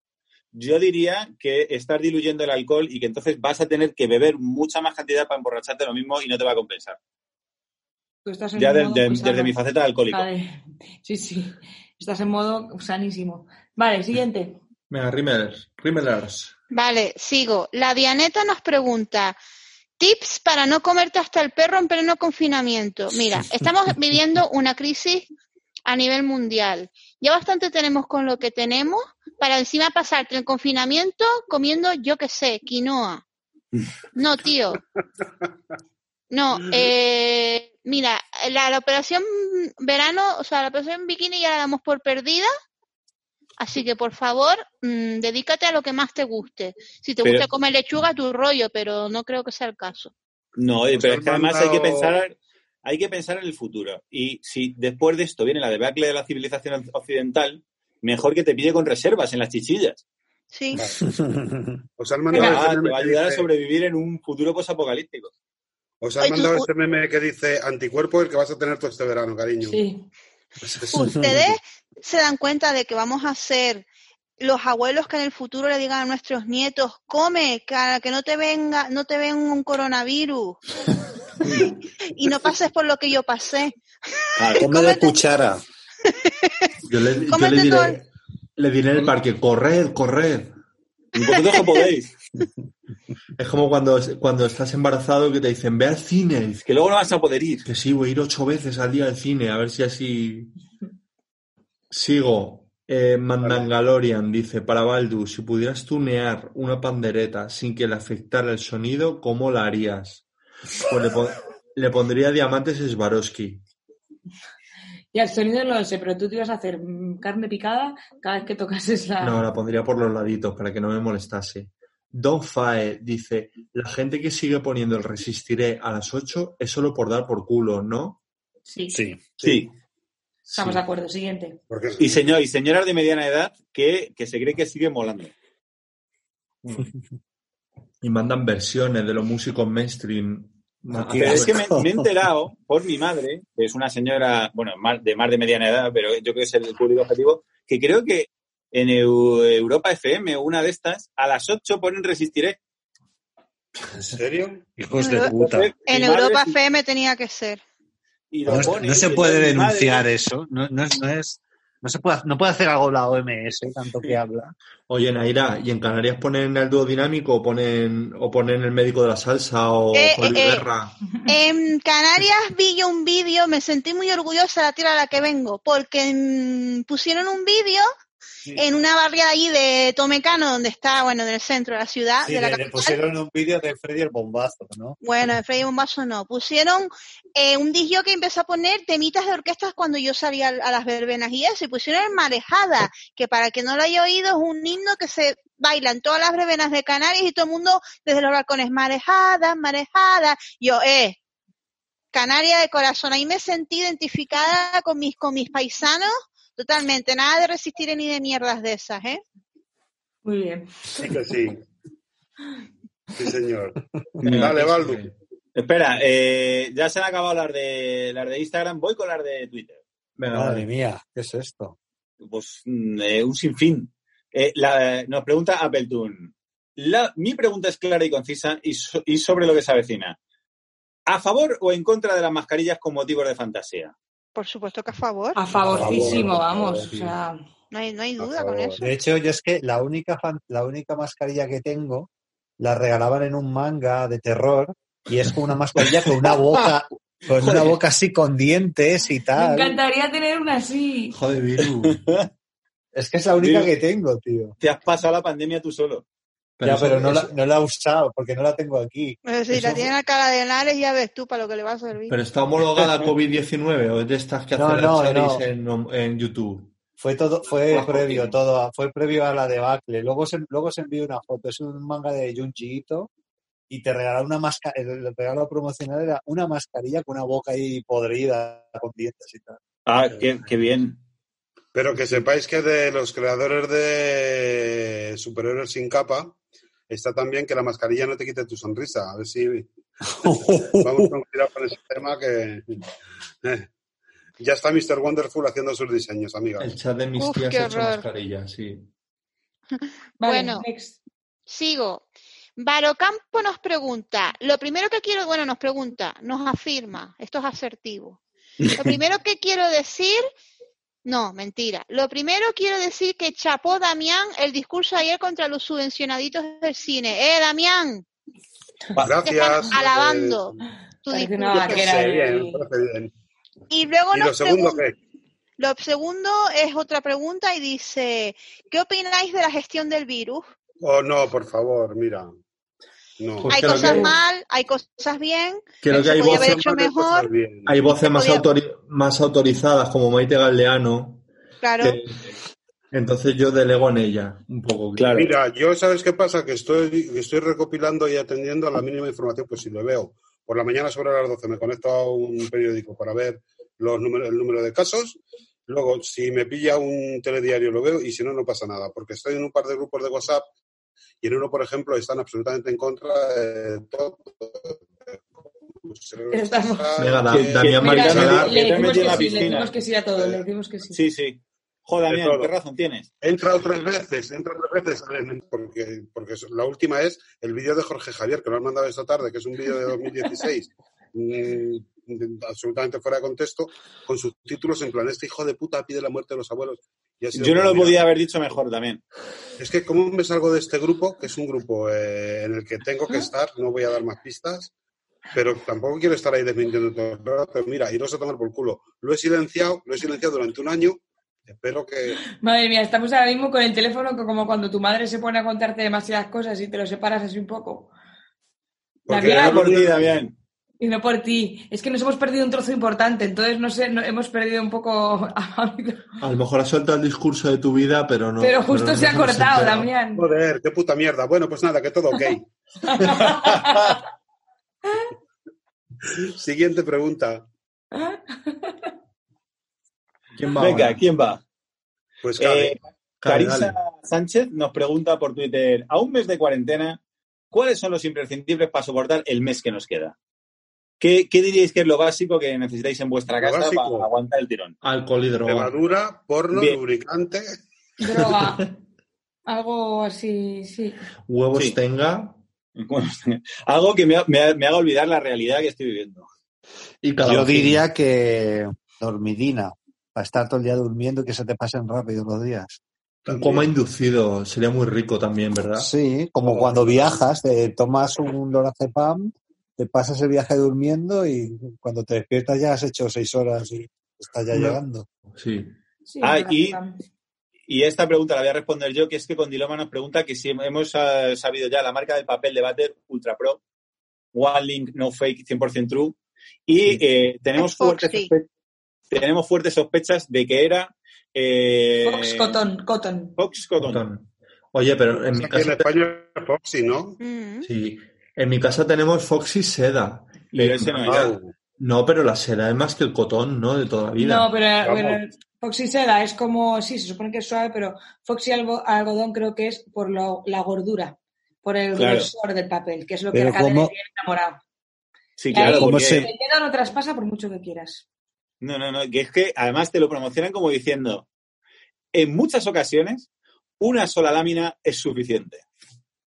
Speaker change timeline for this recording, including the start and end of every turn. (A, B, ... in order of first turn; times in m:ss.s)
0:00.5-0:07.0 A
0:08.2-0:09.6 B
0:08.6-0:10.3 A
0:10.1-0:14.6 B
0:14.9-0:16.6 C
0:16.7-0:19.4 D
0:20.0-0:25.3 D
0:25.9-0:33.2 D
0:34.2-0:34.8 D
0:36.3-0:42.5 D
0:43.6-0:50.1 D
0:50.6-1:00.0 A
0:50.9-0:52.2 E
1:00.5-1:00.8 D
1:01.0-1:01.8 F
1:02.0-1:03.5 E
1:02.3-1:05.3 A
1:06.0-1:09.8 E
1:06.2-1:06.7 D
1:09.6-1:10.1 B
1:10.6-1:11.3 E
1:10.9-1:13.9 D
1:11.0-1:11.4 F
1:14.4-1:20.6 D
1:22.1-1:23.8 D
1:24.4-1:24.7 A
1:24.6-1:25.2 D
1:24.6-1:25.6 F
1:26.2-1:26.5 D
1:26.8-1:28.1 C
1:27.3-1:28.0 D
1:28.6-1:30.6 C
1:31.2-1:32.1 A
1:33.4-1:36.6 C
1:36.6-1:37.7 A
1:37.6-1:40.5 C
1:41.9-1:50.2 C
1:43.4-1:43.7 E
1:50.8-1:53.6 C
1:55.1-1:59.4 B
1:59.2-2:08.2 C
2:08.7-2:09.0 B
2:09.0-2:09.6 E
2:09.4-2:09.7 A
2:10.5-2:10.8 C
2:10.5-2:11.6 B
2:11.7-2:12.0 E
2:12.0-2:15.3 A
2:18.0-2:21.6 C
2:20.9-2:22.0 F
2:21.2-2:32.6 A
2:34.1-2:34.6 E
2:34.8-2:35.7 F
2:35.0-2:35.3 D
2:35.3-2:36.6 A
2:35.9-2:37.6 D
2:38.3-2:40.1 A
2:38.5-2:44.5 F
2:44.9-2:51.0 C
2:49.9-2:50.7 D
2:51.3-2:57.9 D
2:58.6-3:03.0 D
3:02.2-3:05.0 F
3:05.0-3:21.2 D
3:22.1-3:29.2 D
3:30.2-3:30.9 B
3:31.0-3:31.6 E
3:33.2-3:35.1 E
3:34.2-3:35.1 C
3:35.6-3:39.8 A
3:40.2-3:40.7 C
3:40.3-3:41.8 F
3:42.2-3:50.2 A
3:51.1-3:53.9 A
3:54.4-3:55.4 D
3:55.4-3:57.4 B
3:55.7-3:56.2 C
3:55.7-3:56.7 E
3:57.7-3:58.9 D
3:58.2-3:58.8 E
3:58.8-4:09.8 F
4:07.4-4:07.8 A
4:09.4-4:11.2 B
4:11.1-4:12.0 C
4:11.8-4:12.3 A
4:13.0-4:14.5 F
4:13.4-4:13.7 A
4:14.6-4:16.0 A
4:16.6-4:17.3 C
4:16.6-4:19.2 F
4:19.2-4:22.2 D
4:19.5-4:19.8 C
4:22.1-4:26.7 C
4:24.6-4:25.4 F
4:27.0-4:33.1 F
4:27.7-4:28.4 C
4:33.7-4:39.6 F
4:39.9-4:41.0 A
4:41.7-4:46.4 E
4:46.9-4:49.7 E
4:50.2-4:51.1 F
4:50.8-4:52.8 E
4:53.4-4:53.7 E
4:54.4-4:56.8 E
4:56.6-4:58.9 C
4:57.2-4:58.1 D
4:59.8-5:00.7 D
5:00.2-5:01.0 B
5:01.5-5:02.0 D
5:02.6-5:08.2 D
5:08.6-5:08.9 A
5:08.8-5:10.2 D
5:11.0-5:18.0 D
5:19.0-5:20.6 E
5:19.2-5:20.6 D
5:21.1-5:21.8 D
5:21.1-5:22.6 B
5:21.5-5:23.1 E
5:23.7-5:24.8 D
5:24.1-5:25.0 E
5:25.6-5:30.4 D
5:30.8-5:32.3 E
5:33.2-5:33.5 E
5:33.4-5:34.1 C
5:33.5-5:37.3 D
5:33.9-5:34.1 B
5:35.8-5:36.6 C
5:36.1-5:37.8 E
5:37.7-5:41.2 C
5:38.0-5:38.5 D
5:41.6-5:42.0 D
5:42.9-5:45.3 C
5:45.0-5:45.3 A
5:45.2-6:00.5 E
6:01.2-6:10.4 E
6:06.3-6:06.9 B
6:07.0-6:09.2 C
6:07.3-6:09.7 A
6:07.8-6:11.0 B
6:10.9-6:13.1 A
6:12.1-6:12.5 E
6:13.2-6:28.0 E
6:27.4-6:29.0 A
6:29.6-6:34.7 E
6:35.4-6:42.2 E
6:42.3-6:47.9 B
6:49.1-6:50.2 E
6:49.1-6:49.8 B
6:49.1-6:50.4 A
6:50.8-6:56.2 B
6:56.2-6:59.9 C
6:58.4-7:00.2 B
7:00.2-7:02.5 E
7:02.8-7:04.0 B
7:06.4-7:07.5 E
7:07.9-7:08.9 B
7:10.4-7:11.0 C
7:10.6-7:11.4 A
7:12.2-7:12.8 E
7:12.4-7:17.0 A
7:13.2-7:13.8 C
7:17.5-7:20.2 A
7:21.0-7:24.8 A
7:23.4-7:24.1 E
7:24.8-7:25.7 C
7:25.4-7:27.5 E
7:26.5-7:26.8 A
7:28.0-7:28.7 B
7:28.2-7:28.6 C
7:29.5-7:31.0 B
7:31.3-7:32.4 C
7:32.8-7:36.3 A
7:37.0-7:37.8 C
7:37.2-7:42.8 F
7:43.3-7:43.7 E
7:43.3-7:45.9 C
7:45.8-7:55.1 F
7:46.4-7:47.2 E
7:54.5-7:54.8 C
7:55.3-7:55.7 C
7:56.1-7:57.0 B
7:56.2-7:56.8 A
7:57.7-8:03.6 A
8:04.3-8:08.5 A
8:07.6-8:08.3 D
8:09.1-8:12.6 A
8:12.0-8:13.4 B
8:13.4-8:14.0 A
8:13.8-8:15.9 C
8:15.1-8:17.2 E
8:17.2-8:17.7 D
8:17.6-8:21.0 C
8:20.5-8:21.4 A
8:21.0-8:21.5 E
8:21.8-8:24.5 C
8:24.2-8:34.6 B
8:24.8-8:25.2 E
8:32.0-8:32.3 A
8:33.3-8:33.9 F
8:35.4-8:36.3 A
8:35.5-8:38.0 B
8:35.6-8:36.3 F
8:38.6-8:41.3 A
8:42.1-8:43.3 A
8:43.8-8:45.6 A